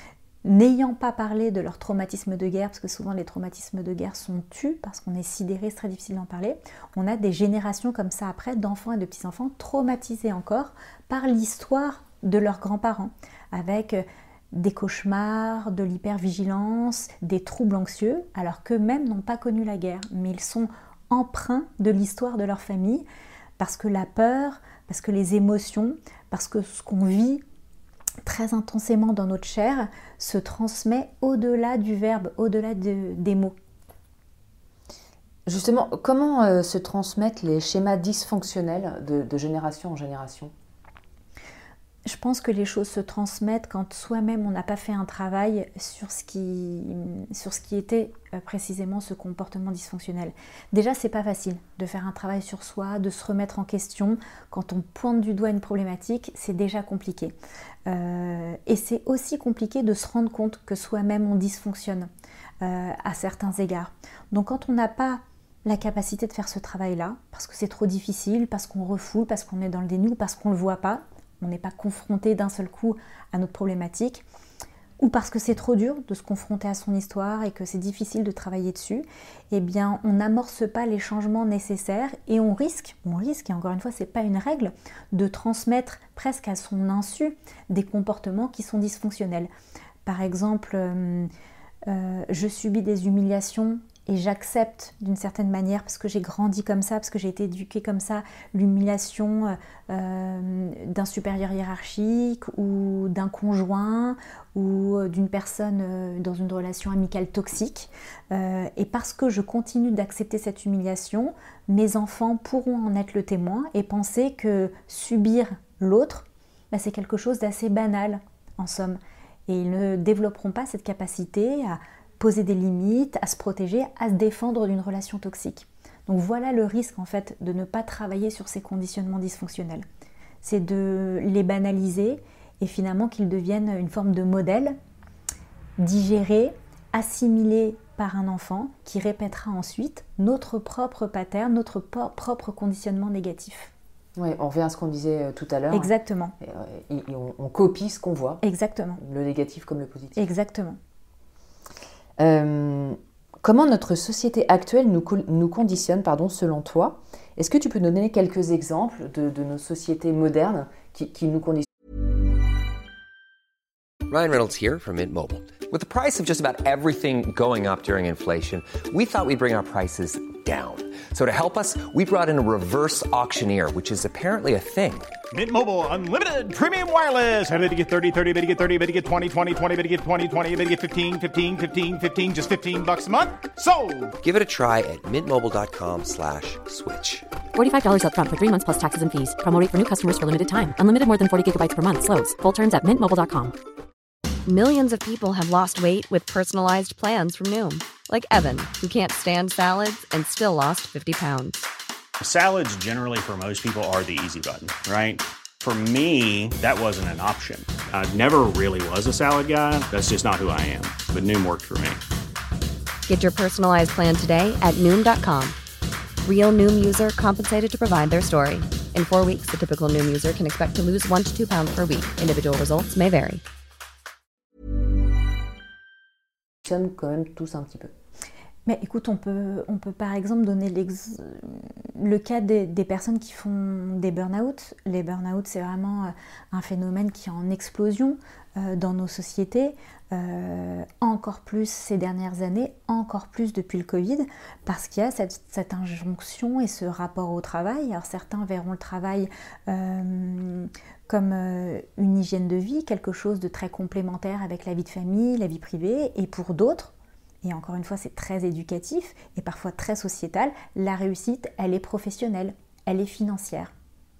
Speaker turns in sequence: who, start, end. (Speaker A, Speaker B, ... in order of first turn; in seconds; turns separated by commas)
Speaker A: 0.4-23.0, Speaker A: 23.6-27.4, Speaker A: 28.2-33.5, Speaker B: 35.5-40.5, Speaker A: 42.0-57.3, Speaker A: 57.9-62.1, Speaker A: 62.6-74.2, Speaker A: 75.0-89.5, Speaker A: 90.0-91.3, Speaker A: 91.9-129.8, Speaker A: 130.4-134.8, Speaker A: 135.8-143.7, Speaker B: 144.2-148.4, Speaker A: 145.7-146.3, Speaker A: 148.4-149.0, Speaker B: 149.0-150.3, Speaker A: 150.2-150.8, Speaker B: 152.2-161.7, Speaker C: 164.1-175.1, Speaker D: 175.3-184.1, Speaker C: 184.2-187.2, Speaker E: 187.5-193.5, Speaker F: 194.4-201.6, Speaker G: 202.2-212.0, Speaker F: 213.1-215.6, Speaker F: 216.2-223.4, Speaker B: 226.6-227.9, Speaker A: 228.7-256.9, Speaker A: 257.4-263.7